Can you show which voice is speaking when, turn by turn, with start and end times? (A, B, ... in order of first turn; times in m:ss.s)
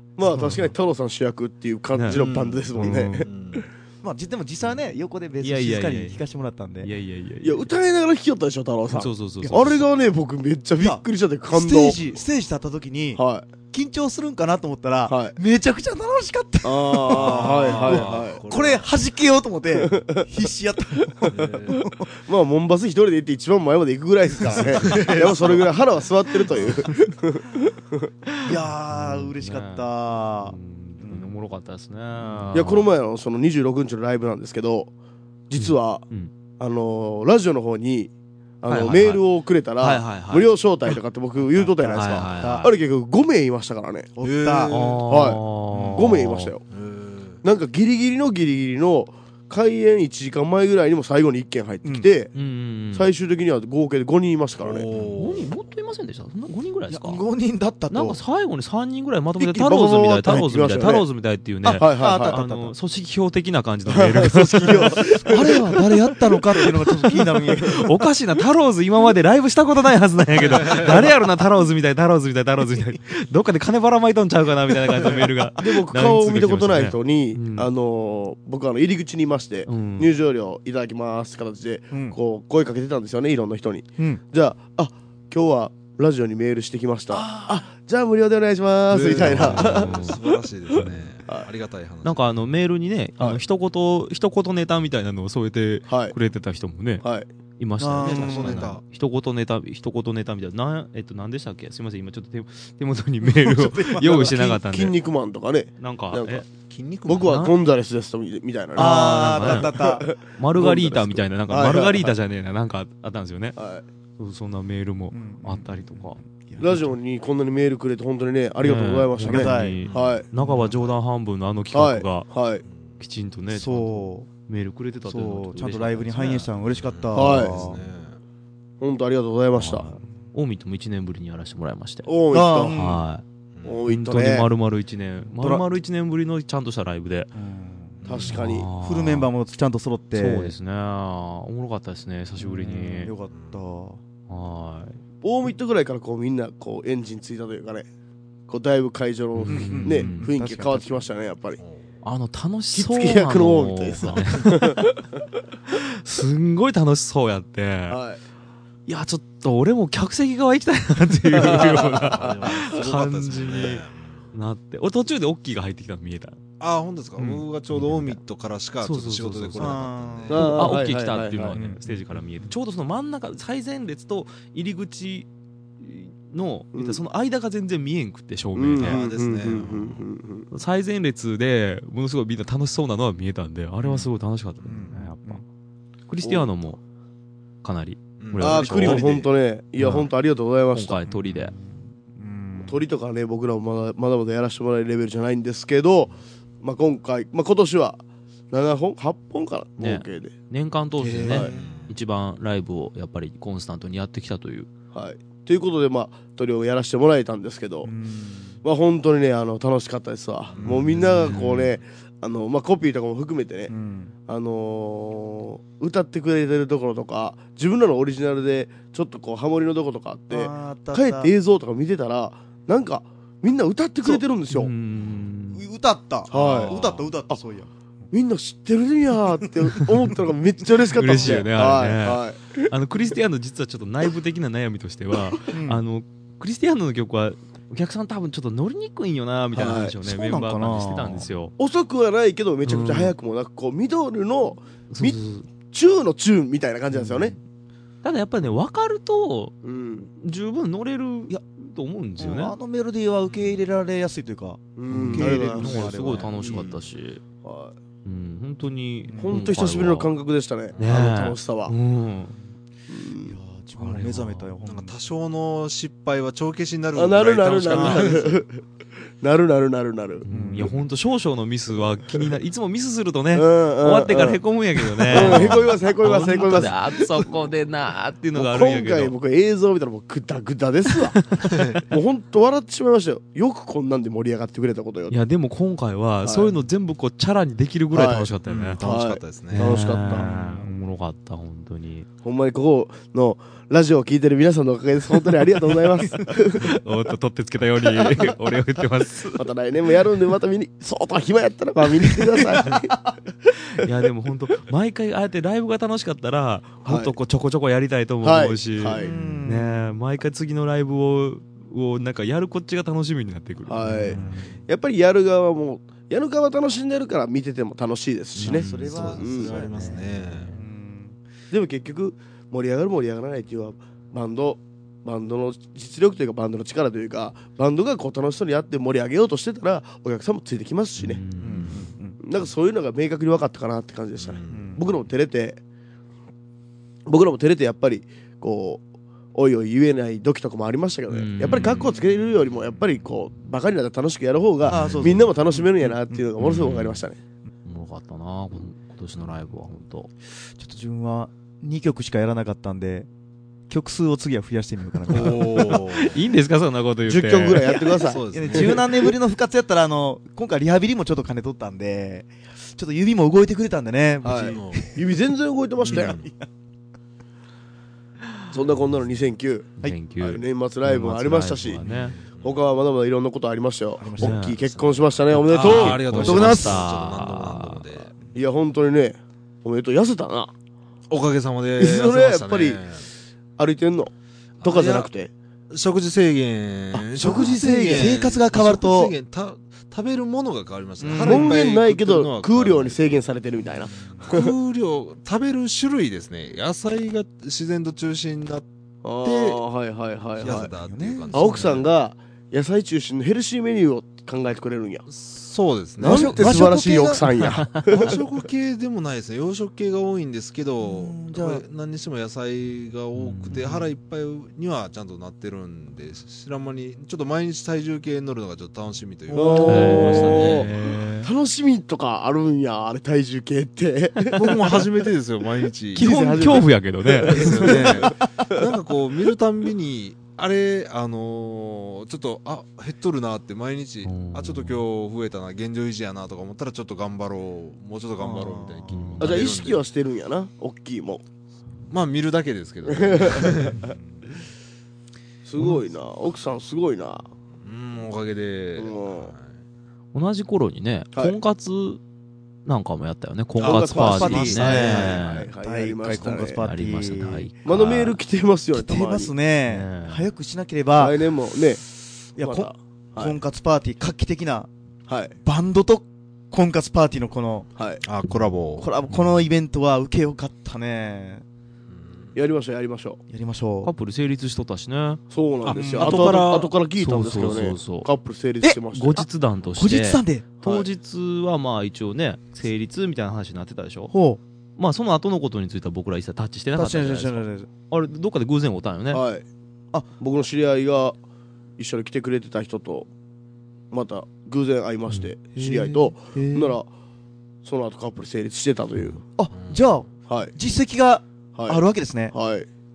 0:00.2-0:03.3 A
0:00.2-0:00.7 B
0:01.9-0:03.3 B
0:02.1-0:03.6 C
0:04.0-0:06.9 D
0:05.4-0:06.2 B
0:06.8-0:07.7 B
0:07.4-0:12.0 A
0:08.9-0:09.8 B
0:09.4-0:09.7 D
0:10.8-0:13.2 D
0:13.2-0:13.5 A
0:13.7-0:22.1 D
0:15.1-0:15.4 A
0:16.6-0:18.4 A
0:17.1-0:18.9 C
0:19.8-0:20.2 A
0:21.2-0:21.8 C
0:22.1-0:28.1 A
0:24.5-0:25.2 D
0:24.5-0:26.9 C
0:28.4-0:31.3 D
0:28.9-0:32.8 B
0:32.2-0:32.7 D
0:32.5-0:34.9 A
0:35.5-0:36.0 A
0:35.5-0:36.3 B
0:36.6-0:44.1 A
0:38.6-0:39.2 B
0:39.8-0:40.9 B
0:41.4-0:42.7 D
0:41.9-0:42.7 B
0:44.2-0:44.8 D
0:44.2-0:45.0 C
0:44.7-0:46.5 B
0:45.1-0:45.4 A
0:45.7-0:46.2 D
0:45.9-0:46.6 A
0:46.7-0:47.4 C
0:47.4-0:52.3 A
0:51.8-0:52.1 D
0:52.3-0:53.1 B
0:52.9-0:54.8 A
0:54.6-0:55.5 C
0:55.0-0:57.2 B
0:56.9-0:58.2 D
0:57.9-1:06.6 B
0:59.4-1:01.0 A
1:01.6-1:02.7 D
1:01.7-1:02.4 A
1:03.9-1:05.5 A
1:05.0-1:07.9 D
1:07.5-1:17.7 B
1:15.6-1:30.1 A
1:19.6-1:20.1 B
1:21.9-1:22.2 D
1:27.1-1:27.6 B
1:28.9-1:32.3 C
1:29.0-1:30.2 B
1:32.0-1:37.0 B
1:35.9-1:36.1 A
1:37.0-1:37.3 A
1:37.6-1:44.9 B
1:37.8-1:38.7 D
1:38.0-1:38.8 C
1:43.2-1:44.5 D
1:44.1-1:46.4 A
1:45.8-1:46.4 B
1:46.7-1:47.4 C
1:47.0-1:52.1 A
1:47.1-1:47.5 B
1:48.7-1:50.1 D
1:48.8-1:53.6 B
1:53.6-1:53.8 A
1:54.2-1:56.2 B
1:55.1-1:57.0 D
1:56.6-2:00.2 A
1:58.6-2:02.3 B
1:59.2-1:59.8 D
1:59.8-2:00.2 C
2:01.7-2:02.6 A
2:03.0-2:06.5 B
2:03.5-2:04.3 D
2:05.0-2:07.8 D
2:06.6-2:08.2 C
2:07.1-2:07.6 A
2:08.8-2:09.9 A
2:09.6-2:12.1 B
2:12.0-2:12.8 A
2:12.3-2:13.0 D
2:12.7-2:13.2 B
2:13.6-2:13.8 C
2:13.6-2:14.5 A
2:13.9-2:17.3 B
2:15.4-2:15.6 D
2:17.3-2:18.0 D
2:18.0-2:18.4 C
2:18.0-2:18.7 A
2:18.3-2:19.3 B
2:18.8-2:20.5 D
2:20.1-2:23.1 B
2:22.4-2:24.0 D
2:23.3-2:23.6 C
2:24.3-2:25.0 B
2:25.2-2:27.9 A
2:28.5-2:31.6 A
2:29.4-2:30.3 B
2:29.5-2:31.0 D
2:31.6-2:31.8 C
2:32.0-2:34.8 B
2:32.7-2:34.8 A
2:35.7-2:38.0 B
2:37.9-2:38.2 A
2:38.8-2:46.4 B
2:41.4-2:42.5 A
2:41.4-2:44.3 C
2:46.6-2:50.5 C
2:47.2-2:48.1 D
2:47.2-2:48.0 B
2:48.8-2:55.3 B
2:49.6-2:50.8 D
2:50.3-2:51.6 A
2:51.5-2:51.8 D
2:55.8-2:59.0 B
2:56.7-2:57.0 A
2:58.5-3:00.5 A
2:58.8-3:00.1 C
3:00.5-3:05.4 B
3:03.8-3:04.1 C
3:04.6-3:04.9 C
3:04.6-3:05.4 D
3:06.1-3:06.8 B
3:06.2-3:06.5 A
3:07.6-3:09.2 B
3:08.2-3:09.2 C
3:08.4-3:11.0 A
3:09.8-3:10.1 B
3:10.7-3:11.5 B
3:11.1-3:12.8 D
3:12.6-3:20.3 A
3:19.8-3:24.7 B
3:21.0-3:21.7 D
3:21.3-3:21.9 C
3:24.9-3:27.9 A
3:27.8-3:28.6 D
3:28.6-3:33.7 A
3:30.5-3:31.8 C
3:33.7-3:34.1 D
3:34.3-3:44.7 A
3:40.3-3:41.3 D
3:44.5-3:45.6 B
3:45.5-3:47.7 D
3:46.3-3:46.8 A
3:46.3-3:47.1 C
3:48.1-3:52.7 A
3:50.9-4:01.5 B
3:55.4-3:55.8 D
3:59.5-3:59.9 A
4:00.0-4:01.3 D
4:01.6-4:05.2 A
4:02.6-4:03.1 B
4:04.9-4:05.5 B
4:05.7-4:07.3 A
4:08.0-4:09.5 B
4:09.6-4:10.1 A
4:10.2-4:12.5 B
4:12.2-4:16.7 D
4:13.3-4:13.6 C
4:14.8-4:15.9 A
4:15.0-4:17.2 B
4:17.4-4:17.7 A
4:18.0-4:20.1 B
4:19.1-4:19.5 D
4:19.2-4:21.7 A
4:20.8-4:22.4 B
4:22.9-4:23.4 A
4:23.2-4:25.0 D
4:23.8-4:24.5 B
4:24.6-4:28.4 C
4:26.9-4:28.6 A
4:29.2-4:30.2 A
4:30.2-4:39.1 B
4:30.3-4:30.7 D
4:33.3-4:34.4 A
4:34.9-4:37.3 A
4:35.1-4:35.8 C
4:38.3-4:41.2 A
4:41.2-4:41.6 B
4:41.4-4:41.8 C
4:41.9-4:45.2 A
4:45.1-4:48.8 B
4:46.2-4:46.5 A
4:47.9-4:50.3 A
4:48.4-4:49.8 C
4:49.5-4:52.1 B
4:50.1-4:50.7 D
4:52.2-4:56.7 A
4:56.5-4:59.4 B
4:58.0-4:58.3 A
4:59.3-5:03.0 A
5:03.8-5:14.2 B
5:06.8-5:07.1 A
5:08.2-5:09.1 A
5:09.0-5:09.9 D
5:13.6-5:19.6 A
5:14.0-5:14.6 D
5:18.4-5:20.6 B
5:18.4-5:20.5 C
5:18.4-5:21.2 D
5:21.5-5:31.2 A
5:31.0-5:31.9 B
5:31.4-5:32.2 D
5:32.2-5:35.6 A
5:34.2-5:34.9 C
5:34.5-5:34.8 D
5:37.1-5:47.2 A
5:41.1-5:41.9 B
5:44.6-5:44.9 C
5:44.7-5:46.2 D
5:46.4-5:47.0 B
5:47.6-5:50.1 B
5:50.6-5:53.1 D
5:53.7-5:55.8 D
5:55.1-5:56.1 C
5:55.2-5:57.8 B
5:57.0-5:58.8 A
5:58.0-5:58.8 C
5:58.2-6:05.1 D
6:04.2-6:06.2 A
6:04.4-6:04.9 C
6:05.8-6:06.2 C
6:05.9-6:06.3 D
6:08.5-6:11.8 A
6:09.8-6:12.2 B
6:11.8-6:12.6 C
6:12.4-6:16.5 A
6:14.0-6:14.4 D
6:14.2-6:14.6 B
6:14.6-6:18.1 C
6:15.3-6:17.9 B
6:16.1-6:16.8 D
6:18.3-6:20.5 A
6:21.1-6:23.0 C
6:21.8-6:22.8 A
6:23.6-6:24.1 A
6:24.6-6:25.1 C
6:24.6-6:25.3 A
6:25.7-6:33.3 C
6:26.9-6:29.1 D
6:27.2-6:28.2 A
6:31.0-6:31.6 D
6:31.2-6:34.5 A
6:33.9-6:34.2 D
6:34.2-6:38.6 C
6:39.0-6:40.7 A
6:39.2-6:39.6 C
6:40.4-6:41.9 C
6:40.4-6:41.7 D
6:41.3-6:45.0 A
6:45.1-6:46.7 C
6:46.0-6:47.3 D
6:46.0-6:48.2 A
6:47.7-7:00.7 C
6:50.8-6:51.6 D
6:53.2-6:53.8 B
6:59.3-7:04.9 A
6:59.6-7:01.3 B
6:59.6-7:00.2 D
7:04.3-7:06.6 C
7:05.9-7:08.6 A
7:05.9-7:08.0 B
7:07.3-7:19.8 C
7:14.0-7:14.8 B
7:18.2-7:19.2 D
7:18.9-7:19.4 B
7:19.2-7:21.2 A
7:21.9-7:23.8 C
7:22.9-7:23.9 A
7:25.4-7:27.3 A
7:27.6-7:29.5 C
7:28.8-7:29.3 A
7:30.1-7:32.0 B
7:32.6-7:35.5 B
7:33.6-7:36.6 A
7:33.6-7:34.0 C
7:33.7-7:37.5 D
7:34.7-7:35.1 C
7:36.6-7:38.2 B
7:37.6-7:39.3 A
7:38.7-7:41.2 D
7:39.7-7:40.3 B
7:40.9-7:41.8 A
7:42.4-7:44.7 D
7:42.4-7:43.4 A
7:45.1-7:45.3 A
7:45.4-7:47.7 D
7:48.0-7:48.9 C
7:48.8-7:51.4 D
7:51.9-7:52.3 C
7:52.3-7:53.2 A
7:53.3-7:53.9 D
7:53.8-7:55.2 B
7:55.3-7:59.2 A
7:55.6-7:56.7 C
7:55.7-7:56.3 D
7:56.0-7:58.1 B
7:58.6-7:59.2 D
7:58.9-8:04.1 B
7:59.8-8:00.4 D
8:00.6-8:00.9 A
8:04.1-8:04.4 D
8:04.8-8:09.2 B
8:06.7-8:07.7 D
8:09.1-8:09.4 A
8:10.2-8:11.2 A
8:11.8-8:13.1 A
8:13.9-8:16.9 A
8:15.1-8:16.8 B
8:17.6-8:19.2 A
8:19.4-8:22.3 D
8:19.5-8:20.0 C
8:20.3-8:20.5 A
8:21.5-8:22.7 A